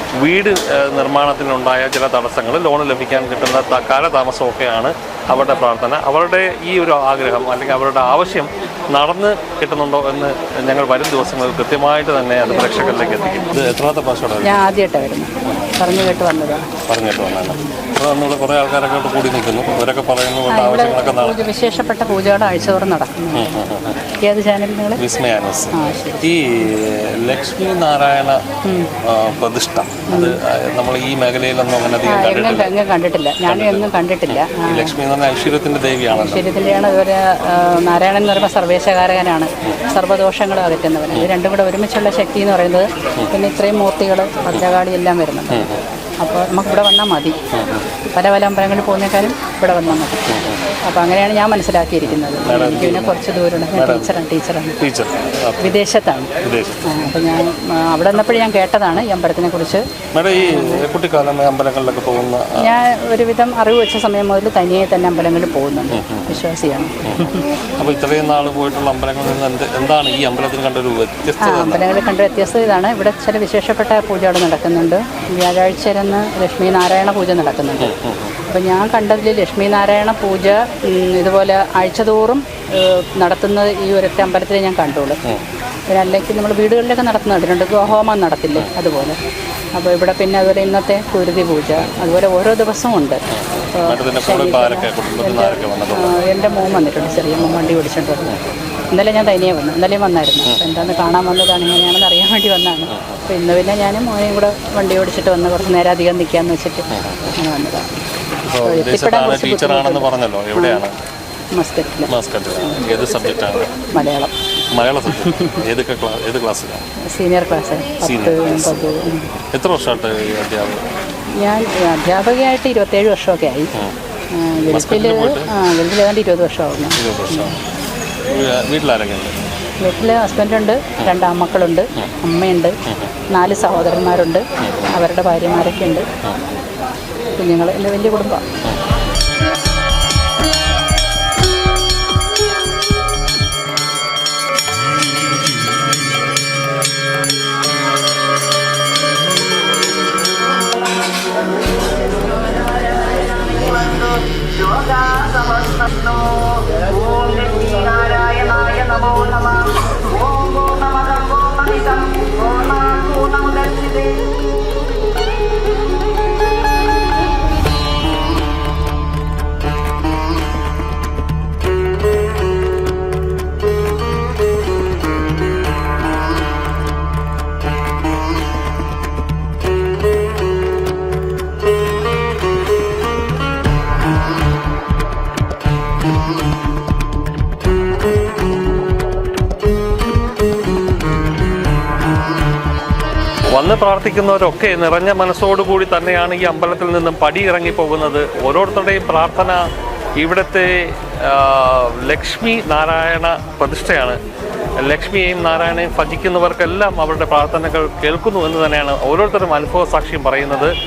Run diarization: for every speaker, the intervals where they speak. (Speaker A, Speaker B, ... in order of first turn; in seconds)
Speaker A: 0.2-14.6, 15.5-16.2, 16.9-21.5, 23.3-24.0, 25.0-28.4, 29.1-32.7, 33.5-36.4, 45.5-45.8, 47.5-47.9, 50.3-50.6, 52.0-53.2, 53.7-54.1, 54.8-55.7, 56.4-57.1, 60.1-62.5, 65.9-66.3, 67.8-71.8, 77.8-78.3, 93.3-96.1, 102.9-103.2, 106.9-107.3, 108.4-110.9, 112.1-113.7, 114.7-116.8, 118.0-118.9, 119.5-120.8, 124.7-125.5, 127.0-127.5, 128.2-129.3, 134.6-134.9, 193.5-199.6, 200.2-204.2, 204.8-210.7
Speaker B: 14.4-16.6, 20.5-23.6, 24.2-25.0, 25.7-26.2, 30.1-30.3, 32.1-34.9, 36.1-45.7, 46.2-47.4, 48.1-54.7, 55.6-56.3, 56.9-59.8, 60.5-60.8, 62.6-67.4, 71.4-77.9, 78.5-85.2, 85.9-89.2, 89.8-93.2, 93.8-98.4, 98.9-106.8, 107.3-107.9, 108.6-110.8, 111.5-112.8, 113.9-114.3, 115.2-115.5, 117.0-119.3, 121.4-123.7, 124.3-127.5, 129.8-132.7, 133.3-136.1, 137.4-138.4
Speaker C: 153.4-154.1, 154.7-159.7, 160.2-163.9